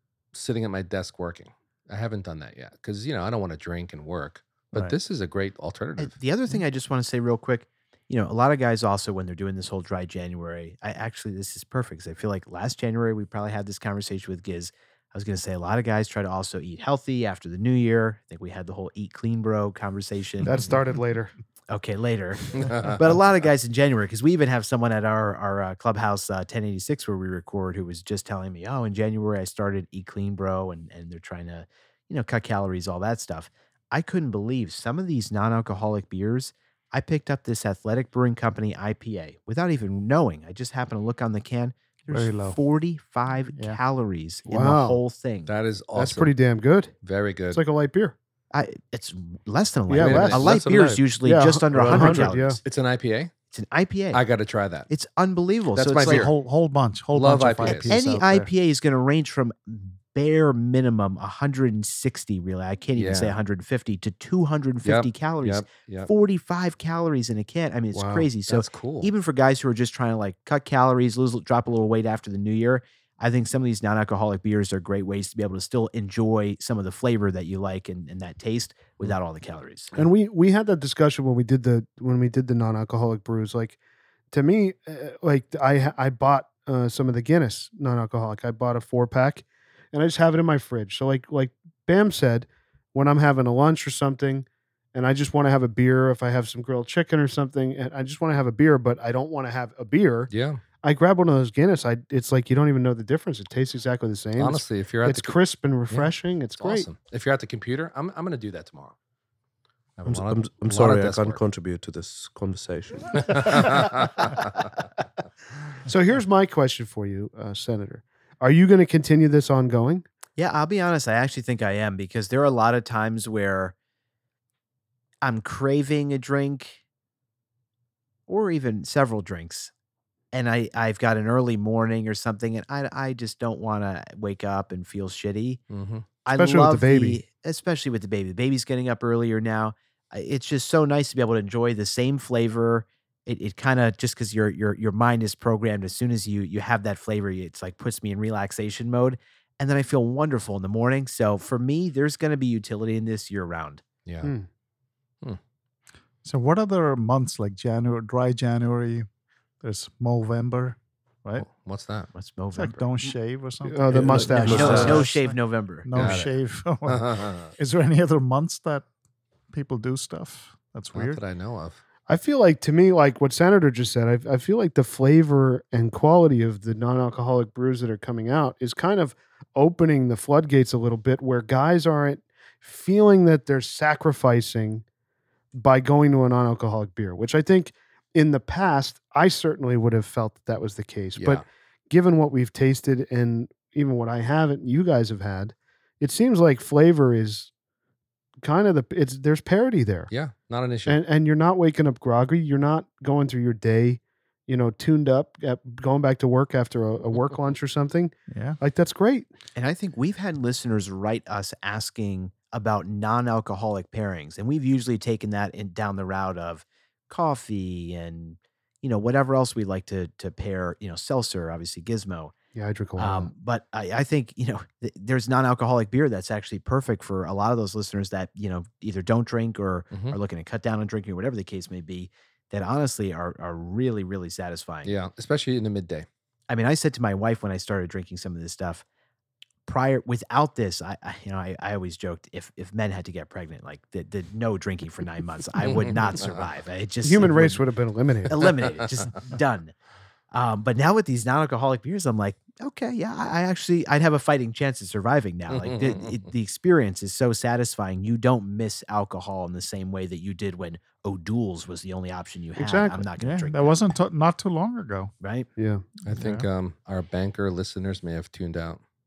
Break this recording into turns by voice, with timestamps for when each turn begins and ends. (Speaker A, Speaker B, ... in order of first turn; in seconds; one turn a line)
Speaker A: 0.3-6.2
Speaker B: 6.0-20.7
Speaker C: 20.4-21.3
Speaker B: 21.7-45.5
Speaker A: 22.6-23.0
Speaker D: 42.1-42.6
Speaker C: 44.5-45.0
Speaker A: 45.5-46.3
Speaker C: 46.0-46.9
Speaker A: 47.0-47.6
Speaker C: 47.5-48.1
Speaker B: 48.5-52.6
Speaker C: 49.9-50.5
Speaker A: 50.0-50.6
Speaker E: 50.4-51.0
Speaker C: 51.2-52.6
Speaker E: 51.7-52.3
Speaker A: 52.6-53.3
Speaker B: 53.5-54.2
Speaker A: 54.1-54.9
Speaker B: 54.9-56.3
Speaker A: 55.8-56.3
Speaker D: 56.0-58.5
Speaker A: 57.1-57.9
Speaker B: 57.7-80.0
Speaker A: 63.0-63.4
Speaker A: 64.8-66.1
Speaker C: 67.9-68.3
Speaker A: 68.5-69.1
Speaker C: 79.9-83.8
Speaker C: 84.3-100.3
Speaker A: 100.3-100.6
Speaker C: 100.8-106.9
Speaker A: 104.4-105.3
Speaker A: 105.9-109.0
Speaker A: 110.0-111.4
Speaker E: 110.1-113.8
Speaker A: 113.2-114.5
Speaker C: 115.9-120.0
Speaker B: 120.4-123.7
Speaker B: 125.2-126.8
Speaker B: 128.3-129.7
Speaker B: 130.3-135.6
Speaker A: 135.7-136.1
Speaker B: 136.2-153.8
Speaker C: 136.3-137.2
Speaker A: 154.1-154.3
Speaker D: 156.2-159.1
Speaker D: 159.6-161.5
Speaker A: 161.4-162.1
Speaker B: 162.2-163.1
Speaker D: 162.6-168.9
Speaker C: 163.7-165.1
Speaker E: 163.9-165.1
Speaker B: 164.3-166.2
Speaker A: 165.9-167.5
Speaker D: 169.5-171.2
Speaker A: 170.9-171.8
Speaker C: 172.1-184.8
Speaker C: 185.5-197.5
Speaker A: 191.2-191.4
Speaker C: 198.4-200.1
Speaker A: 200.1-201.0
Speaker C: 200.9-209.3
Speaker D: 208.3-208.6
Speaker B: 209.6-222.3
Speaker C: 222.6-223.3
Speaker B: 223.0-234.9
Speaker A: 229.9-230.2
Speaker A: 234.8-236.1
Speaker B: 236.5-238.8
Speaker B: 239.7-247.6
Speaker A: 245.6-246.4
Speaker C: 247.0-248.4
Speaker B: 248.3-249.7
Speaker B: 250.3-263.8
Speaker A: 255.5-256.2
Speaker C: 262.6-263.1
Speaker D: 263.2-265.1
Speaker B: 265.2-265.5
Speaker C: 265.6-265.8
Speaker A: 266.1-268.8
Speaker D: 266.1-266.5